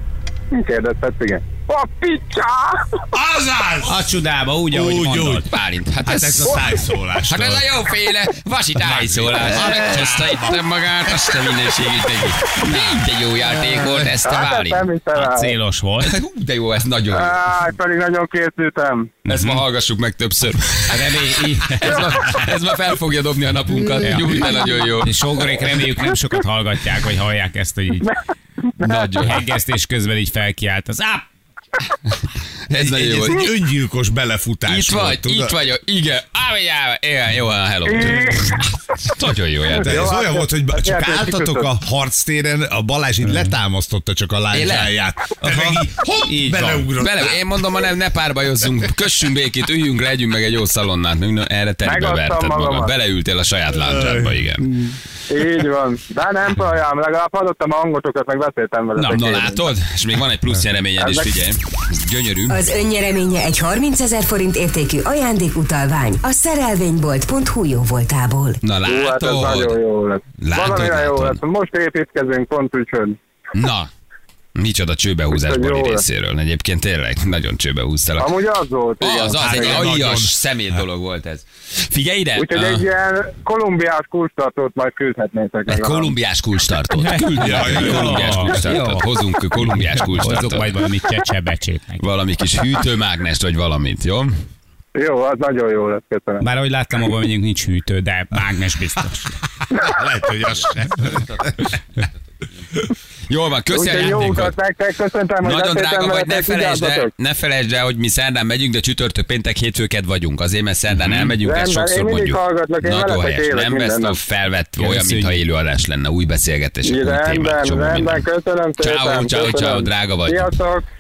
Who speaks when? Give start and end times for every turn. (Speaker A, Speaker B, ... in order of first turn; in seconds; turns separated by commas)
Speaker A: 0.5-3.0, Speaker B: 3.1-4.0, Speaker C: 3.9-5.5, Speaker B: 4.7-5.5, Speaker D: 5.5-14.9, Speaker B: 6.0-7.8, Speaker B: 8.8-10.6, Speaker C: 12.6-12.9, Speaker A: 14.2-15.5, Speaker C: 15.2-16.2, Speaker D: 16.0-17.4, Speaker A: 17.1-19.1, Speaker C: 19.3-19.6, Speaker D: 19.3-25.1, Speaker C: 20.9-22.5, Speaker C: 24.0-28.1, Speaker A: 24.5-24.9, Speaker A: 28.8-29.1, Speaker D: 28.8-29.4, Speaker C: 29.2-31.3, Speaker D: 32.7-33.5, Speaker B: 32.7-35.5, Speaker D: 34.7-40.1, Speaker A: 37.9-38.7, Speaker A: 39.7-41.7, Speaker B: 39.8-47.4, Speaker C: 43.2-43.5, Speaker D: 44.5-44.9, Speaker C: 45.4-46.9, Speaker D: 47.0-54.7, Speaker A: 51.8-52.9, Speaker B: 53.9-54.3, Speaker A: 55.3-59.7, Speaker D: 59.0-62.6, Speaker A: 61.0-61.3, Speaker E: 62.5-68.6, Speaker D: 68.6-69.8, Speaker A: 68.8-73.2, Speaker D: 70.4-71.4, Speaker D: 73.5-73.9, Speaker D: 74.6-78.3, Speaker A: 75.3-76.0, Speaker A: 78.2-79.8, Speaker D: 79.0-82.9, Speaker B: 79.4-80.3, Speaker A: 82.4-86.1, Speaker D: 85.7-90.8, Speaker C: 87.0-92.0, Speaker B: 87.4-88.7, Speaker D: 92.0-94.4, Speaker A: 95.0-96.4, Speaker C: 96.4-99.3, Speaker B: 99.7-101.5, Speaker D: 103.3-104.5, Speaker A: 103.7-107.1, Speaker D: 105.4-118.3, Speaker C: 111.0-111.3, Speaker A: 111.4-114.2, Speaker C: 114.8-115.4, Speaker A: 116.8-120.9, Speaker D: 118.8-120.5